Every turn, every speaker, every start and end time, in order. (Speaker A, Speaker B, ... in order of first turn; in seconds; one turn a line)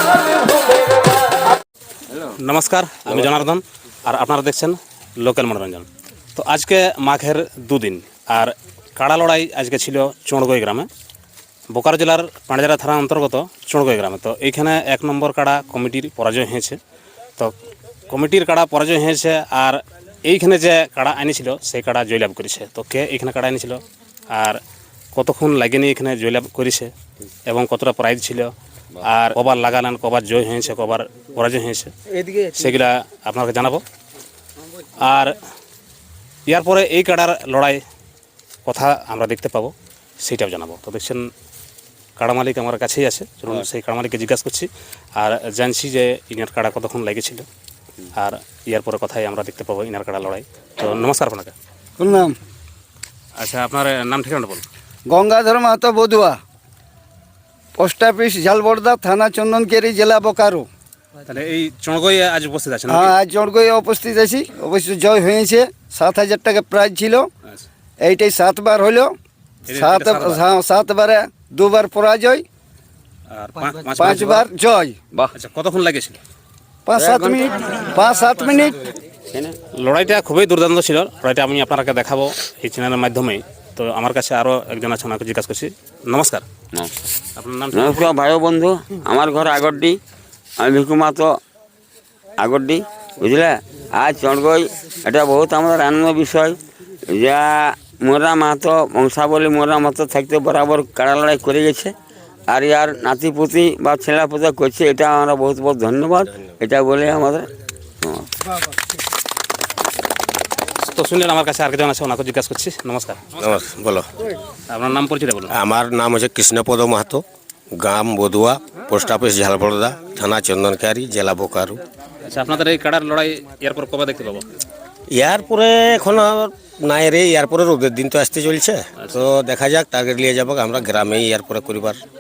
Speaker A: 2.1-10.9
Speaker A: 11.7-16.8
Speaker A: 18.1-24.6
Speaker A: 25.1-26.9
Speaker A: 27.5-33.8
Speaker A: 35.0-35.4
Speaker A: 36.5-37.8
Speaker A: 38.7-41.3
Speaker A: 42.2-47.5
Speaker A: 48.1-51.5
Speaker B: 52.0-52.4
Speaker A: 53.4-54.6
Speaker B: 55.1-56.4
Speaker B: 57.8-60.7
Speaker A: 61.3-63.1
Speaker B: 62.9-67.3
Speaker B: 68.0-69.1
Speaker A: 69.7-70.4
Speaker B: 69.7-72.5
Speaker A: 73.3-74.4
Speaker B: 74.0-75.0
Speaker A: 75.3-76.2
Speaker B: 76.9-78.8
Speaker C: 76.9-77.5
Speaker C: 79.3-79.6
Speaker A: 79.8-86.5
Speaker A: 87.4-88.1
Speaker C: 87.7-90.0
Speaker C: 90.6-91.4
Speaker C: 92.4-102.0
Speaker C: 102.5-107.5
Speaker C: 108.0-108.3
Speaker A: 110.8-113.6
Speaker D: 113.4-114.1
Speaker A: 114.7-115.5
Speaker D: 115.5-121.8
Speaker A: 122.2-124.5
Speaker D: 125.1-132.0